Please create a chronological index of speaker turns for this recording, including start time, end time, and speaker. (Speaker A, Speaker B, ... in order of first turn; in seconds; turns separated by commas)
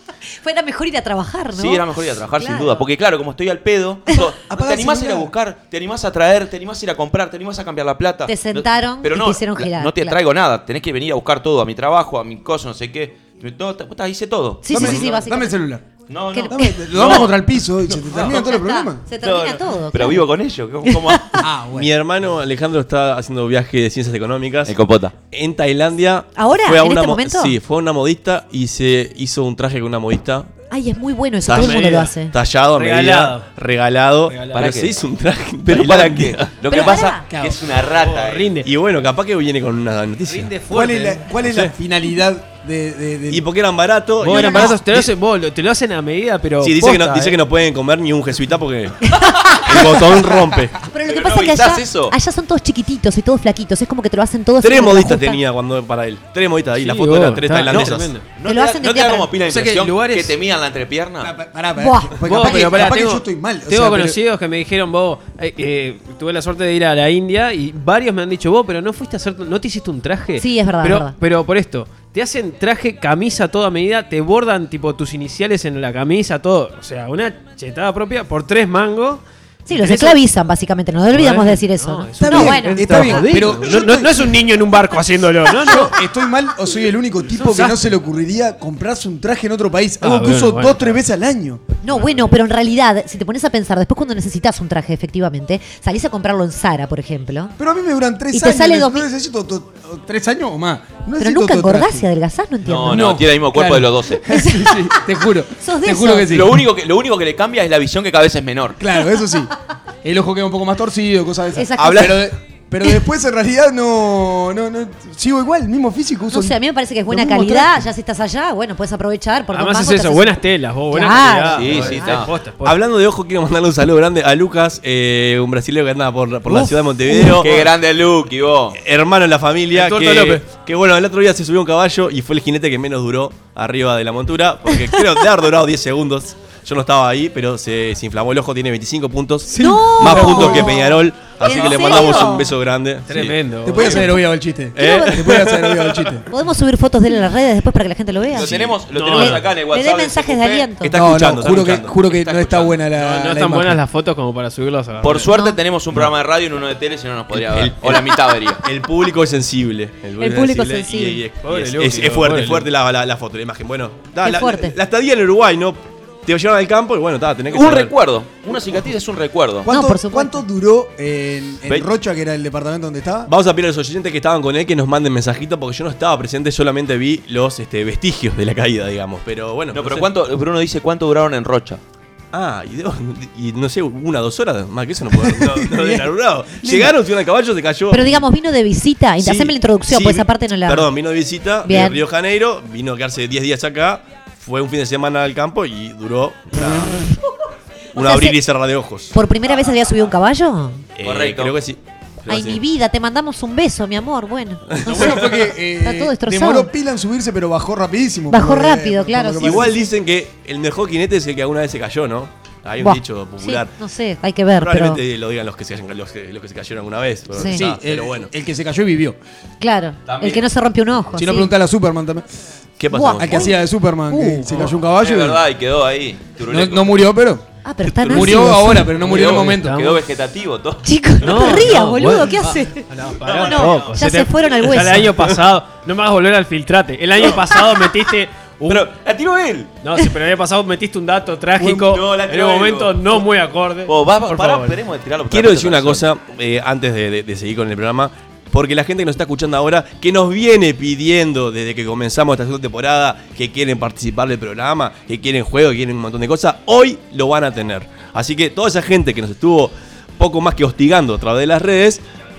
Speaker A: 0.4-2.8, Speaker B: 1.5-15.0, Speaker C: 4.4-5.3, Speaker A: 8.3-10.2, Speaker A: 14.6-15.6, Speaker C: 14.7-15.8, Speaker B: 16.1-17.4, Speaker A: 16.3-17.2, Speaker C: 16.5-19.0, Speaker B: 17.9-18.5, Speaker A: 18.1-20.3, Speaker B: 19.2-21.4, Speaker A: 20.9-21.4, Speaker C: 21.4-21.9, Speaker D: 21.7-24.8, Speaker B: 24.6-25.1, Speaker D: 25.3-30.5, Speaker A: 26.4-27.6, Speaker A: 30.7-32.3, Speaker D: 31.4-36.5, Speaker E: 31.5-32.1, Speaker E: 32.7-33.5, Speaker E: 34.3-34.7, Speaker B: 34.5-34.9, Speaker B: 35.6-38.5, Speaker A: 36.7-37.2, Speaker C: 36.8-37.8, Speaker E: 37.8-38.7, Speaker D: 38.6-40.5, Speaker E: 40.3-41.3, Speaker C: 40.7-43.4, Speaker D: 41.4-41.7, Speaker D: 43.3-45.1, Speaker E: 44.2-47.4, Speaker A: 44.2-44.7, Speaker D: 46.6-50.7, Speaker A: 49.1-50.0, Speaker A: 50.9-55.4, Speaker B: 51.0-52.1, Speaker D: 54.6-58.1, Speaker E: 56.8-58.2, Speaker B: 57.4-61.3, Speaker A: 58.4-59.3, Speaker E: 59.5-60.3, Speaker C: 61.2-64.2, Speaker A: 61.8-62.7, Speaker E: 62.2-80.2, Speaker A: 70.4-71.1, Speaker A: 79.7-83.6, Speaker E: 81.1-85.9, Speaker C: 82.2-84.3, Speaker C: 85.6-91.6, Speaker E: 87.3-87.9, Speaker E: 90.0-91.0, Speaker A: 91.8-97.5, Speaker E: 91.9-92.4, Speaker C: 97.6-102.0, Speaker A: 98.3-99.0, Speaker A: 101.2-103.2, Speaker B: 102.7-104.2, Speaker C: 102.7-106.6, Speaker A: 104.3-105.0, Speaker A: 105.6-106.4, Speaker B: 106.3-108.8, Speaker C: 108.8-109.5, Speaker C: 110.0-116.6, Speaker A: 111.5-112.2, Speaker D: 111.8-112.2, Speaker A: 116.3-120.4, Speaker C: 117.1-117.8, Speaker E: 119.5-122.8, Speaker A: 120.9-122.2, Speaker B: 121.5-122.3, Speaker D: 122.6-127.7, Speaker B: 127.2-128.8, Speaker D: 128.7-144.1, Speaker E: 129.7-130.4, Speaker C: 139.5-140.8, Speaker A: 139.6-142.5, Speaker B: 141.4-142.2, Speaker E: 143.1-144.2, Speaker C: 143.6-146.2, Speaker D: 144.7-146.1, Speaker A: 144.8-145.2, Speaker A: 146.3-150.9, Speaker B: 148.3-150.7, Speaker D: 148.4-148.7, Speaker E: 148.9-149.5, Speaker D: 150.8-152.0, Speaker C: 150.9-153.8, Speaker B: 152.2-152.8, Speaker E: 152.9-155.3, Speaker B: 155.0-158.6, Speaker D: 157.3-167.9, Speaker A: 160.2-161.2, Speaker E: 161.4-162.7, Speaker A: 164.2-164.8, Speaker B: 167.5-169.7, Speaker A: 169.6-170.4, Speaker C: 169.6-173.3, Speaker D: 173.3-180.1, Speaker B: 179.7-181.8, Speaker D: 182.3-188.2, Speaker C: 185.2-186.9, Speaker A: 187.9-190.9, Speaker D: 189.2-197.0, Speaker A: 191.6-192.0, Speaker D: 197.9-199.2, Speaker A: 198.0-198.4, Speaker A: 199.1-200.8, Speaker D: 201.0-202.6, Speaker B: 201.0-201.5, Speaker A: 202.3-205.2, Speaker D: 204.7-205.4, Speaker C: 204.8-209.7, Speaker A: 205.8-206.7, Speaker A: 208.3-209.7, Speaker D: 209.4-213.7, Speaker A: 212.8-215.0, Speaker D: 214.6-218.3, Speaker A: 217.3-217.6, Speaker C: 217.4-219.2, Speaker A: 219.6-221.5, Speaker B: 220.1-220.4, Speaker C: 221.1-222.2, Speaker D: 222.8-223.6, Speaker A: 222.9-224.7, Speaker C: 223.2-225.4, Speaker B: 224.9-227.0, Speaker C: 226.5-227.4, Speaker A: 227.6-228.9, Speaker D: 227.8-228.4, Speaker C: 228.1-229.8, Speaker E: 229.0-230.0, Speaker B: 229.0-231.7, Speaker A: 230.8-232.8, Speaker E: 231.2-238.9, Speaker B: 233.1-234.0, Speaker A: 233.3-235.1, Speaker B: 238.7-239.7, Speaker E: 239.8-244.8, Speaker B: 241.6-243.2, Speaker B: 243.9-246.1, Speaker D: 245.3-262.0